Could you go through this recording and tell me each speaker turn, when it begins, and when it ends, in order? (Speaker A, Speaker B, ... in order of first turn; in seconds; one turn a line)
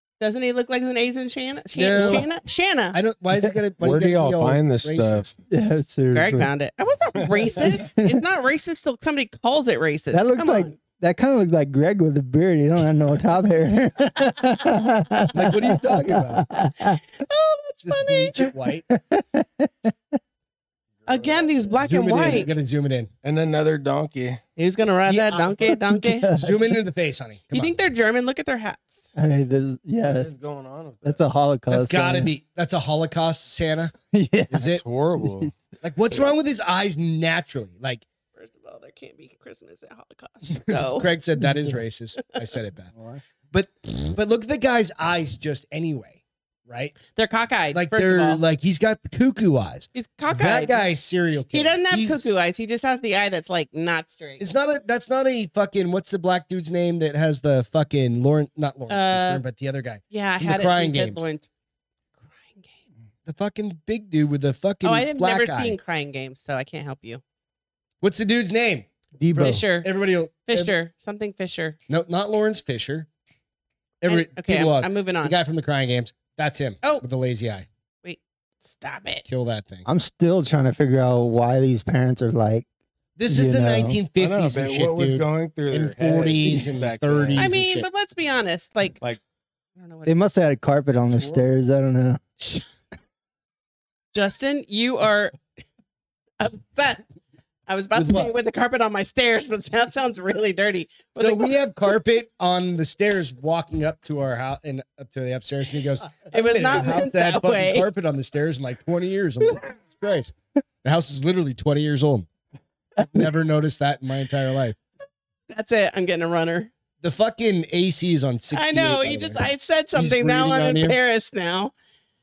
Speaker A: 0.2-3.0
Speaker B: 1.7-2.3
Speaker B: 2.9-5.3
Speaker C: 3.8-5.3
Speaker D: 5.5-6.5
Speaker A: 6.1-10.7
Speaker C: 7.2-7.8
Speaker D: 7.7-8.2
Speaker D: 10.1-17.0
Speaker B: 15.3-16.4
Speaker A: 17.1-18.4
Speaker B: 17.8-18.9
Speaker D: 18.9-19.9
Speaker C: 21.0-21.8
Speaker A: 21.1-22.5
Speaker B: 21.8-23.1
Speaker C: 23.2-24.4
Speaker A: 24.6-26.3
Speaker B: 25.1-25.7
Speaker D: 25.9-26.7
Speaker B: 26.3-27.8
Speaker A: 27.5-29.1
Speaker D: 29.1-30.3
Speaker C: 30.0-31.2
Speaker D: 31.0-32.3
Speaker B: 31.7-33.9
Speaker D: 34.1-35.5
Speaker B: 34.5-34.8
Speaker C: 34.6-35.5
Speaker B: 35.8-38.0
Speaker A: 38.4-41.1
Speaker B: 40.5-42.9
Speaker D: 41.4-41.8
Speaker D: 42.9-43.2
Speaker B: 43.5-47.0
Speaker A: 47.1-48.4
Speaker B: 47.7-52.3
Speaker A: 49.9-50.8
Speaker A: 51.5-54.5
Speaker B: 54.4-61.2
Speaker A: 58.9-59.4
Speaker A: 60.1-61.5
Speaker A: 62.3-62.8
Speaker B: 63.2-65.8
Speaker A: 64.8-67.2
Speaker B: 68.0-68.9
Speaker D: 69.2-69.6
Speaker A: 69.3-69.9
Speaker B: 69.4-70.7
Speaker A: 70.5-71.8
Speaker B: 71.9-73.1
Speaker B: 74.0-77.7
Speaker A: 74.0-75.3
Speaker A: 78.0-79.2
Speaker B: 79.2-79.8
Speaker D: 79.8-82.6
Speaker B: 83.2-87.9
Speaker D: 83.3-84.0
Speaker C: 84.2-87.5
Speaker A: 87.3-89.0
Speaker A: 89.8-90.2
Speaker D: 90.0-92.2
Speaker B: 91.1-91.4
Speaker A: 92.4-92.7
Speaker A: 94.1-95.4
Speaker A: 96.4-97.0
Speaker A: 97.7-101.5
Speaker B: 97.9-98.3
Speaker B: 101.2-112.3
Speaker A: 106.3-107.8
Speaker D: 113.0-113.3
Speaker B: 113.0-114.8
Speaker A: 115.5-116.7
Speaker B: 117.0-121.0
Speaker A: 118.5-121.7